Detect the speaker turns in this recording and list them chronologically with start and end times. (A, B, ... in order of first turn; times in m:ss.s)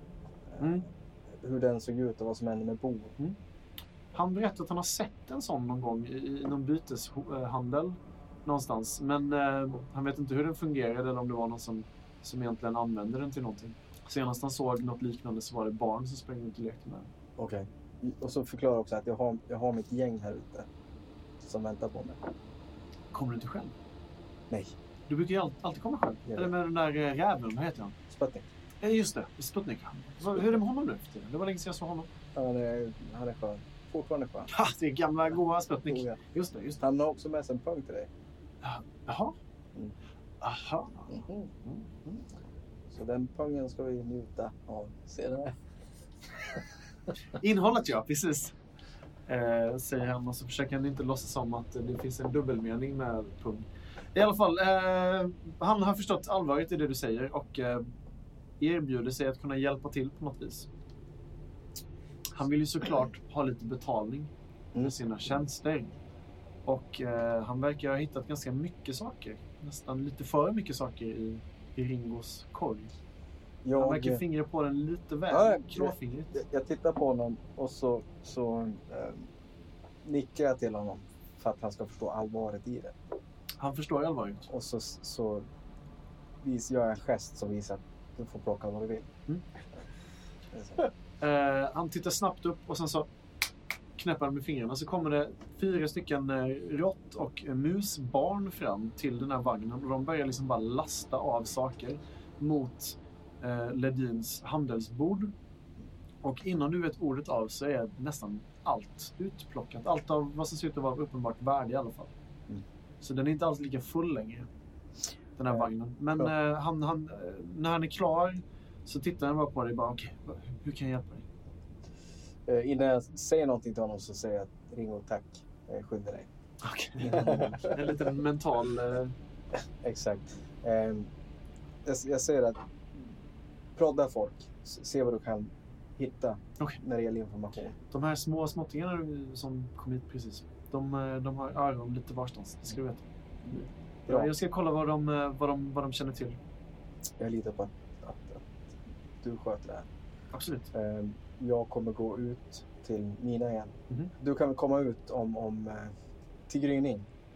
0:00.5-0:03.2 A
0:00.6-0:00.9 B
0:04.1-0:17.1 B
0:17.4-0:20.7 A
0:21.4-0:22.2 A
0:23.1-0:23.8 B
0:25.1-0:28.0 B
0:26.3-0:26.5 A
0:28.1-0:28.5 A
0:28.8-0:32.1 B
0:32.4-0:34.5 A
0:34.5-0:36.8 B
0:35.9-0:36.2 A
0:36.8-0:38.1 A
0:38.6-0:39.4 B
0:40.4-0:41.8 B
0:41.1-0:41.5 A
0:42.9-0:45.6 A
0:47.3-0:48.6 B
0:49.3-0:57.9 B
0:58.6-1:00.7 B
1:02.3-1:06.0 B
1:06.7-1:12.9 B
1:13.6-1:14.2 A
1:13.8-1:16.4 B
1:15.3-1:19.3 A
1:20.0-1:23.0 A
1:23.6-1:24.5 B
1:24.5-1:25.5 A
1:26.4-1:29.1 A
1:30.5-1:30.8 A
1:31.2-1:33.1 B
1:34.0-1:45.3 B
1:46.2-1:52.1 B
1:53.0-1:54.5 B
1:55.4-2:01.3 B
2:02.5-2:06.3 A
2:06.6-2:09.2 B
2:07.0-2:07.8 A
2:09.8-2:11.1 A
2:11.8-2:13.1 A
2:13.8-2:17.8 A
2:17.9-2:26.4 B
2:24.1-2:24.3 A
2:27.2-2:29.9 A
2:30.3-2:30.7 B
2:30.7-2:35.9 A
2:36.5-2:37.1 A